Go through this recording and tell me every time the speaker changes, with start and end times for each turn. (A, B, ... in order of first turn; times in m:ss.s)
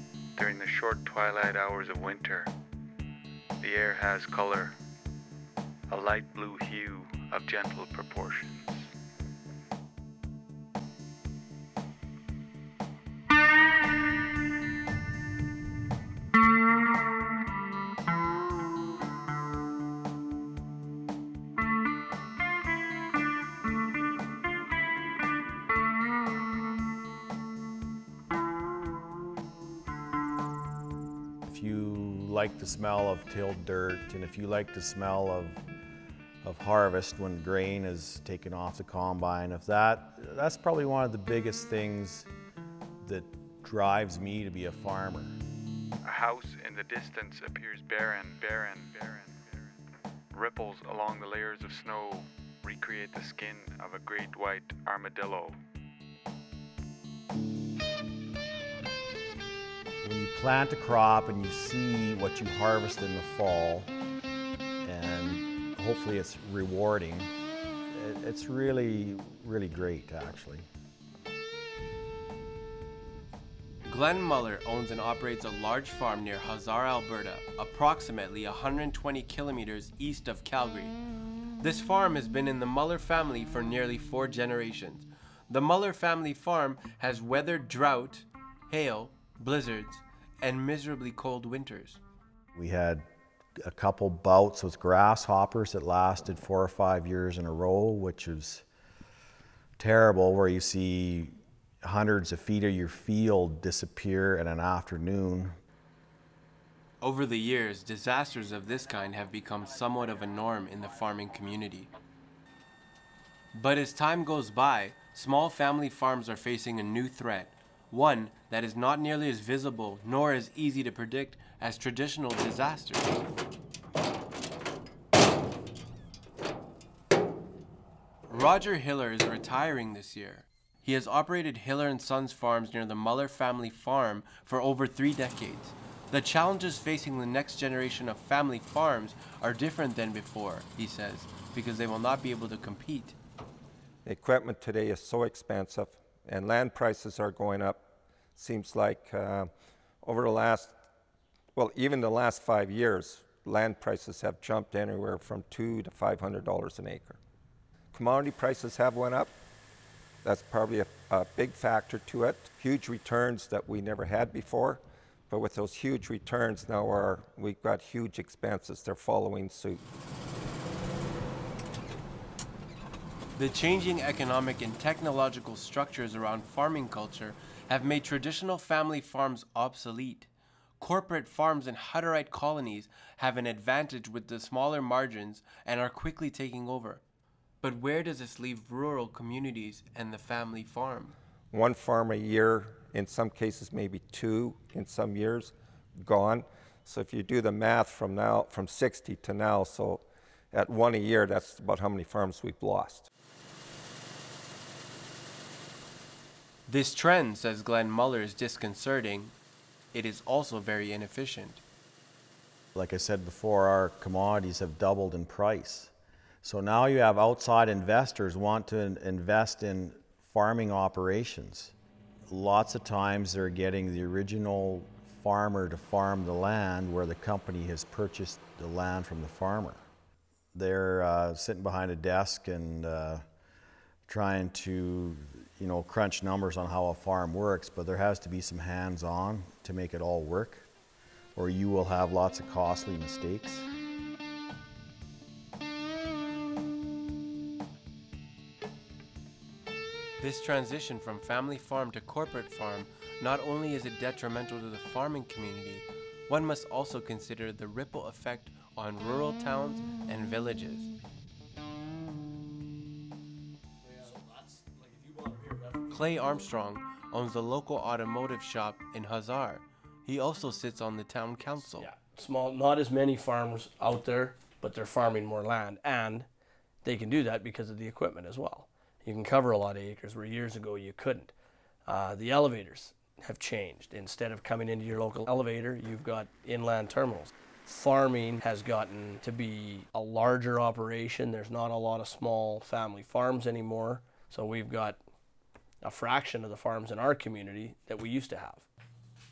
0:00.4-0:02.5 A
0:03.6-0:04.8 A
0:05.9-0:08.9 A
0:31.5-0:35.6 B
0:36.4-0:42.3 B
0:43.0-0:45.4 B
0:46.0-0:49.3 A
0:50.3-0:55.6 A
1:00.0-1:03.9 B
1:04.8-1:07.3 B
1:07.9-1:10.7 B
1:13.9-1:21.0 C
1:21.6-1:32.0 C
1:32.6-1:33.0 B
1:33.6-1:38.6 B
1:39.8-1:45.5 B
1:47.0-1:51.9 C
1:53.5-2:03.2 C
2:08.3-2:23.2 C
2:24.0-2:27.8 D
2:28.4-2:29.5 D
2:30.0-2:30.8 D
2:31.6-2:37.2 D
2:37.9-2:39.3 D
2:40.2-2:49.8 D
2:53.4-3:07.0 C
3:07.6-3:11.2 C
3:11.5-3:23.1 D
3:26.7-3:29.4 C
3:29.9-3:31.6 C
3:32.8-3:35.9 B
3:36.4-3:41.7 B
3:42.3-3:49.8 B
3:50.5-3:53.2 B
3:54.1-4:00.7 B
4:01.4-4:03.7 B
4:10.2-4:20.9 C
4:25.9-4:31.9 C
4:31.8-4:36.3 E
4:36.8-4:41.3 E
4:41.9-4:55.0 E
4:55.8-4:58.7 E